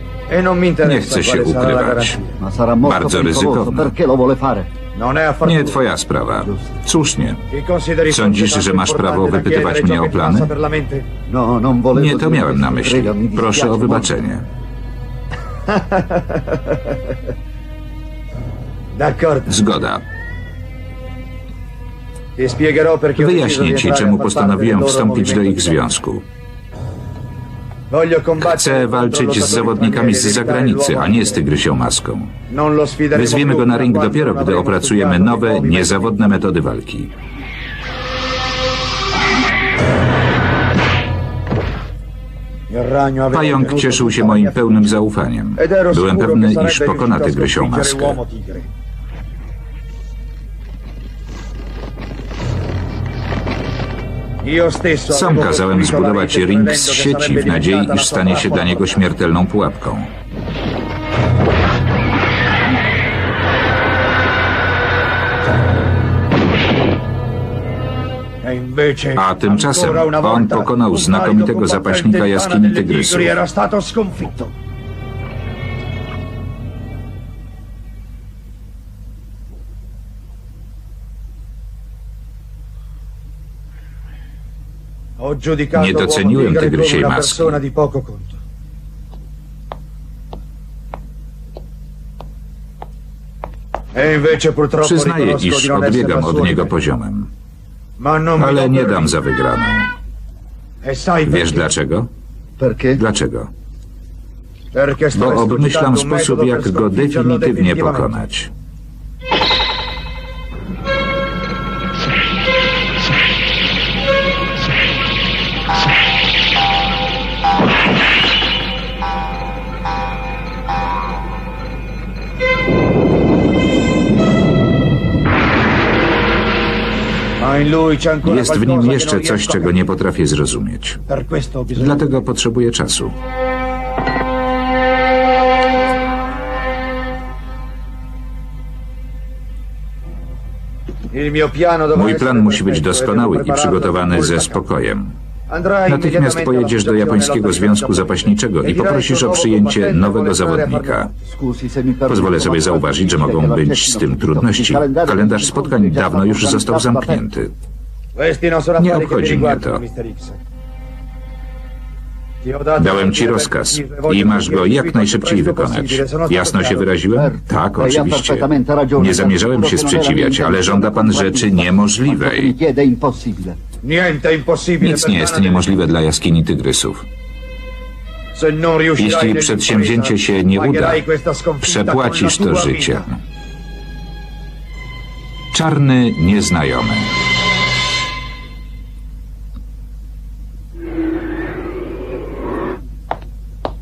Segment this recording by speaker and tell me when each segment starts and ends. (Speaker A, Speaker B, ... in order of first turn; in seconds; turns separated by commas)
Speaker A: 0.3-2.4, Speaker B: 0.8-2.2, Speaker C: 2.4-4.7, Speaker B: 2.9-3.9, Speaker A: 4.9-5.8, Speaker B: 5.4-7.4, Speaker C: 6.4-6.7, Speaker A: 7.5-11.1, Speaker B: 8.1-10.5, Speaker C: 11.3-14.1, Speaker B: 11.9-14.4, Speaker A: 15.7-16.6, Speaker A: 18.9-19.6, Speaker B: 19.5-20.0, Speaker A: 22.4-25.9, Speaker B: 23.1-26.2, Speaker A: 27.9-31.4, Speaker B: 28.4-32.3, Speaker A: 32.5-36.3, Speaker B: 33.1-37.1, Speaker A: 42.7-48.7, Speaker B: 43.3-48.2, Speaker A: 54.4-59.0, Speaker B: 55.1-60.1, Speaker A: 68.4-74.5, Speaker B: 69.2-73.4, Speaker A: 85.2-88.4, Speaker B: 85.7-87.6, Speaker A: 93.9-96.7, Speaker B: 94.8-97.3, Speaker A: 98.0-99.2, Speaker B: 98.3-99.9, Speaker A: 100.8-101.7, Speaker B: 101.2-102.1, Speaker C: 102.6-103.0, Speaker B: 103.0-103.5, Speaker A: 104.7-108.2, Speaker B: 105.1-108.5, Speaker A: 127.4-129.7, Speaker B: 128.2-131.0, Speaker A: 131.1-132.1, Speaker B: 131.7-133.1, Speaker A: 141.1-144.6, Speaker B: 141.9-145.1, Speaker A: 145.5-151.1, Speaker B: 145.8-151.1, Speaker C: 151.2-157.2, Speaker B: 152.1-157.5, Speaker A: 158.2-160.4, Speaker B: 158.8-159.8, Speaker A: 162.4-166.9, Speaker B: 162.8-172.5, Speaker C: 167.1-173.6, Speaker A: 173.8-175.8, Speaker B: 174.8-177.1, Speaker A: 178.3-183.1, Speaker B: 179.0-181.0, Speaker B: 181.6-183.2, Speaker B: 185.5-187.1